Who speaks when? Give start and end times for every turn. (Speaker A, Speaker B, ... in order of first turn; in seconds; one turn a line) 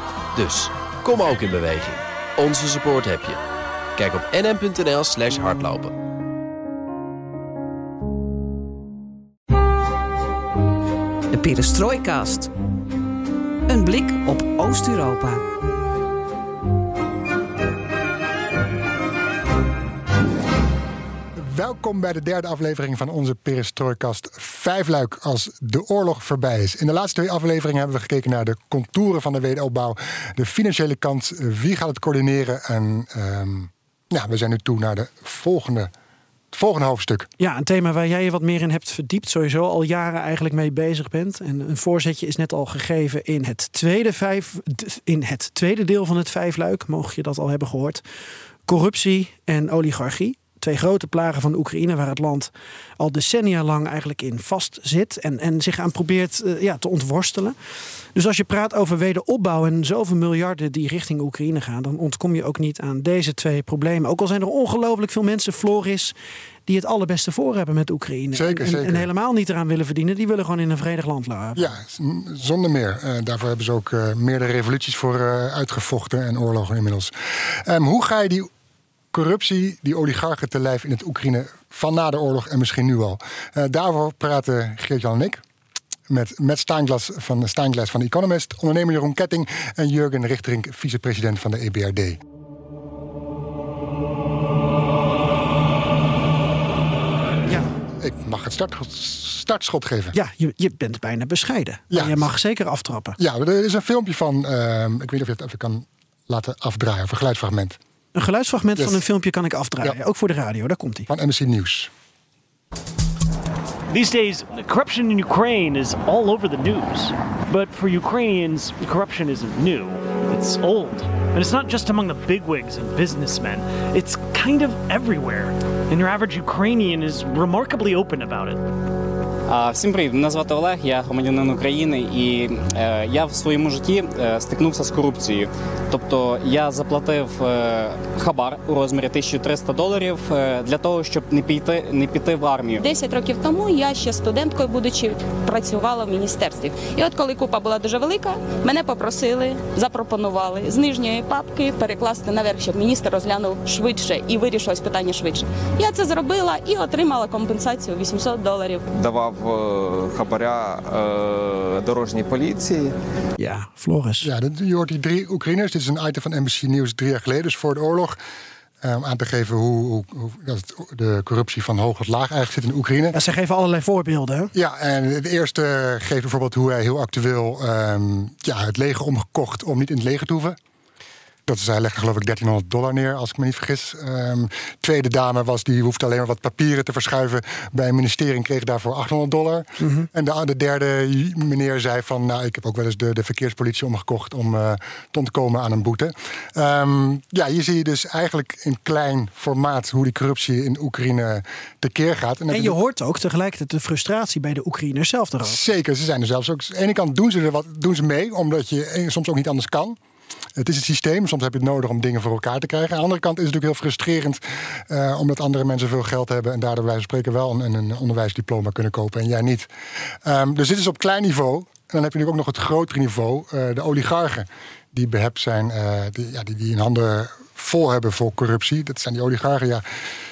Speaker A: 0.3-3.4
Speaker A: 4.0-5.9
Speaker B: 11.3-12.5
Speaker B: 13.7-15.4
Speaker C: 21.4-35.9
Speaker C: 36.5-37.3
Speaker D: 37.4-48.0
Speaker D: 48.7-57.5
Speaker D: 58.1-66.2
Speaker D: 66.7-71.7
Speaker C: 68.3-69.1
Speaker C: 71.6-78.5
Speaker C: 79.1-85.4
Speaker C: 86.1-92.2
Speaker C: 98.0-100.2
Speaker D: 100.1-103.2
Speaker C: 101.9-102.3
Speaker C: 103.2-107.8
Speaker D: 108.2-111.1
Speaker C: 111.1-111.9
Speaker E: 113.9-128.6
Speaker F: 129.5-142.8
Speaker G: 142.8-158.8
Speaker H: 158.9-162.9
Speaker D: 163.4-164.3
Speaker C: 164.2-168.2
Speaker C: 168.8-173.2
Speaker D: 173.1-174.5
Speaker C: 174.6-180.6
Speaker C: 181.5-202.8
Speaker D: 189.8-190.1
Speaker D: 202.5-205.6
Speaker C: 205.4-210.0
Speaker C: 210.6-219.7
Speaker C: 220.2-229.8